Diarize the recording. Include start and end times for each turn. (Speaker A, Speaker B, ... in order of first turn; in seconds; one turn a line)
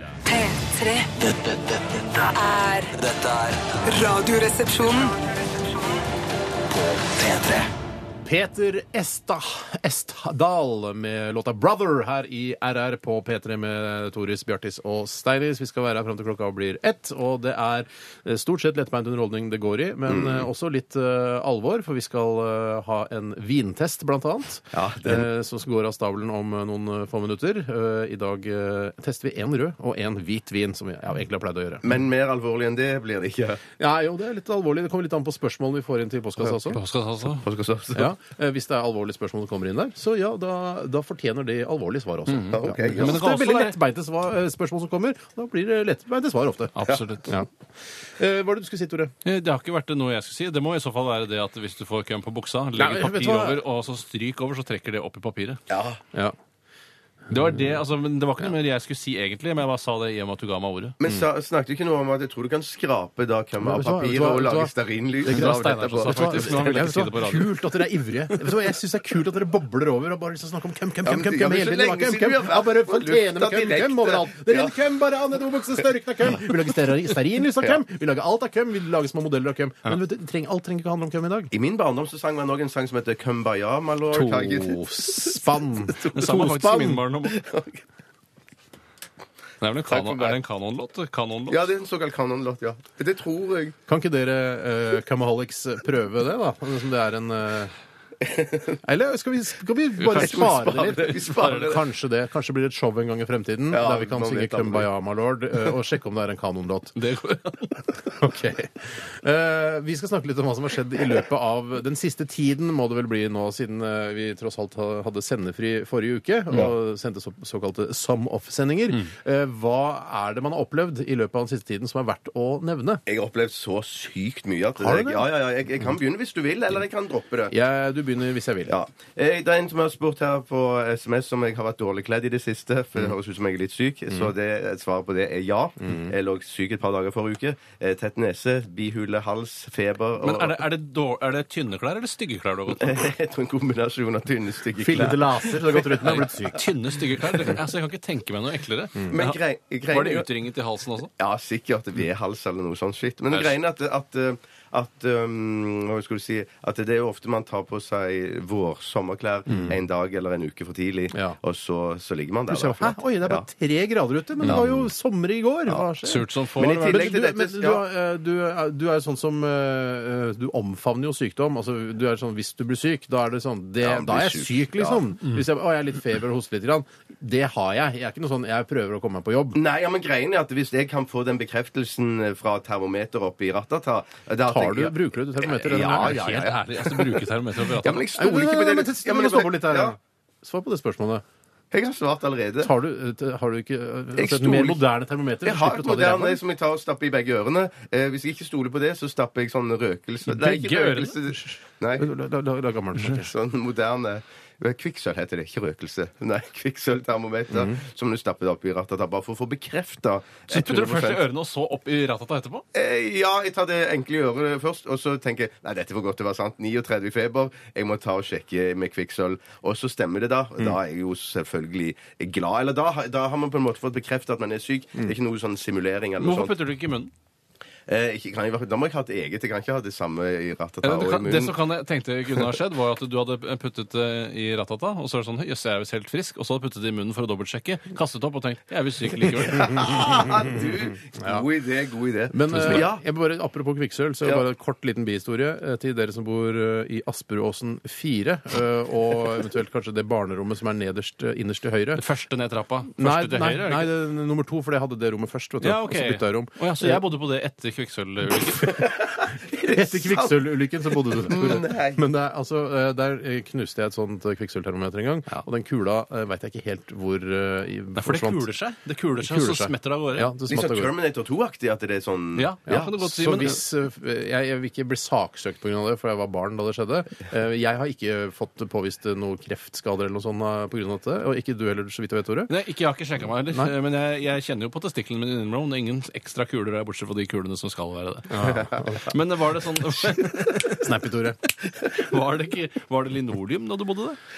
Speaker A: 0.3-1.1
Speaker B: 1.2-2.3
Speaker A: 2.3-2.9
Speaker B: 2.9-3.8
Speaker A: 3.8-5.2
Speaker B: 6.7-7.7
Speaker C: 8.2-31.9
Speaker D: 20.1-20.5
Speaker D: 24.7-25.3
Speaker D: 31.8-33.6
Speaker C: 33.8-36.8
Speaker E: 36.7-37.5
Speaker D: 37.4-38.1
Speaker C: 38.0-47.5
Speaker E: 42.3-43.8
Speaker D: 42.5-43.2
Speaker E: 46.8-47.4
Speaker C: 48.2-49.1
Speaker E: 49.2-55.6
Speaker C: 52.8-53.6
Speaker D: 55.7-56.0
Speaker E: 57.3-61.0
Speaker D: 61.0-66.8
Speaker C: 63.6-64.7
Speaker C: 65.2-81.5
Speaker E: 65.3-67.6
Speaker E: 68.3-68.7
Speaker D: 71.0-74.7
Speaker D: 81.5-87.8
Speaker C: 84.1-86.8
Speaker E: 86.1-87.4
Speaker E: 89.6-91.6
Speaker D: 89.9-90.4
Speaker D: 91.5-93.8
Speaker C: 93.9-97.7
Speaker D: 98.2-98.8
Speaker C: 98.8-107.0
Speaker E: 100.0-101.8
Speaker D: 100.1-101.8
Speaker D: 103.7-104.9
Speaker E: 107.0-108.0
Speaker C: 108.2-123.0
Speaker D: 123.1-127.5
Speaker C: 124.8-125.3
Speaker C: 127.5-128.7
Speaker D: 128.7-140.6
Speaker C: 135.8-136.1
Speaker E: 140.2-143.1
Speaker D: 142.7-146.3
Speaker C: 144.8-146.7
Speaker E: 146.0-151.1
Speaker D: 149.1-150.3
Speaker D: 151.2-163.5
Speaker C: 159.5-159.8
Speaker C: 162.5-166.3
Speaker D: 164.4-164.9
Speaker E: 166.0-167.2
Speaker D: 166.6-167.8
Speaker C: 166.9-179.6
Speaker D: 173.8-175.0
Speaker D: 179.6-190.0
Speaker C: 184.5-186.2
Speaker E: 185.7-188.1
Speaker C: 188.2-191.2
Speaker D: 191.7-192.7
Speaker C: 192.6-196.4
Speaker D: 194.2-194.8
Speaker D: 195.4-202.1
Speaker E: 200.3-201.4
Speaker C: 202.0-203.3
Speaker D: 203.0-211.2
Speaker E: 210.5-212.7
Speaker D: 212.7-226.6
Speaker E: 226.2-227.1
Speaker D: 227.9-231.6
Speaker E: 230.8-240.3
Speaker D: 239.4-243.0
Speaker C: 241.2-241.4
Speaker C: 242.3-252.0
Speaker E: 252.0-253.9
Speaker C: 253.0-257.0
Speaker E: 255.6-258.8
Speaker D: 258.8-260.5
Speaker C: 259.6-268.5
Speaker D: 261.1-262.0
Speaker E: 268.0-270.3
Speaker C: 269.2-270.9
Speaker D: 270.5-273.5
Speaker E: 272.4-273.6
Speaker C: 272.7-282.5
Speaker E: 282.5-291.0
Speaker C: 288.3-289.1
Speaker C: 290.7-291.4
Speaker E: 291.9-294.2